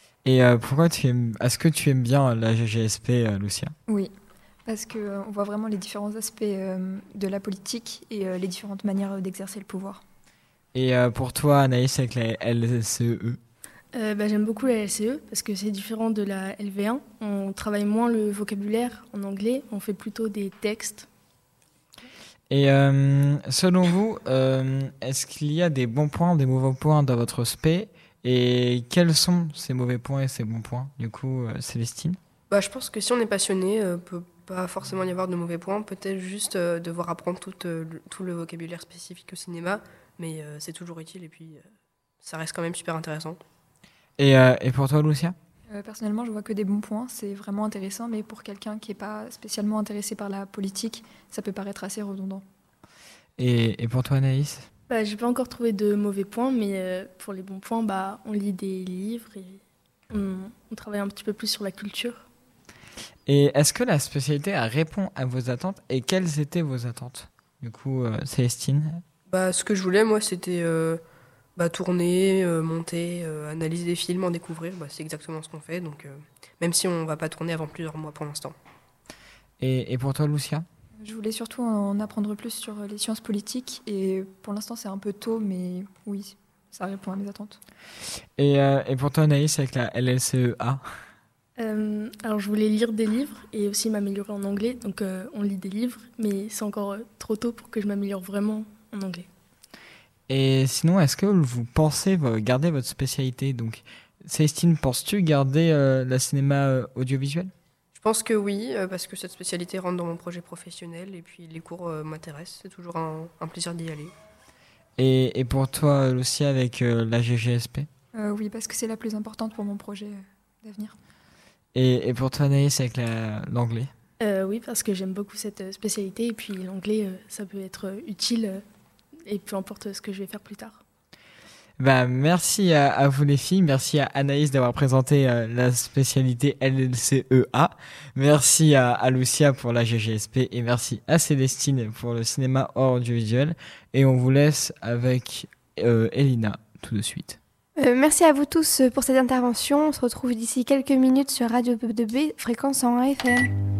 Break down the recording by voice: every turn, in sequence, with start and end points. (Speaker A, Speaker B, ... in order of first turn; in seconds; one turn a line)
Speaker A: 0.2-3.7
Speaker B: 4.7-10.0
Speaker A: 10.7-13.4
Speaker C: 13.9-21.1
Speaker A: 22.5-32.2
Speaker D: 32.5-41.6
Speaker D: 42.2-43.4
Speaker A: 44.2-45.3
Speaker B: 45.7-52.4
Speaker A: 53.4-54.7
Speaker C: 54.9-62.2
Speaker A: 63.3-69.0
Speaker D: 69.3-71.0
Speaker D: 71.5-78.5
Speaker A: 79.6-80.7
Speaker B: 81.0-87.6
Speaker A: 88.4-90.8
Speaker C: 91.6-99.2
Speaker A: 100.3-107.5
Speaker D: 107.9-114.1
Speaker A: 115.0-117.9
Speaker B: 118.1-120.9
Speaker A: 121.7-123.9
Speaker C: 124.2-128.6
Speaker C: 129.2-130.8
Speaker A: 131.8-147.4
Speaker E: 147.8-153.5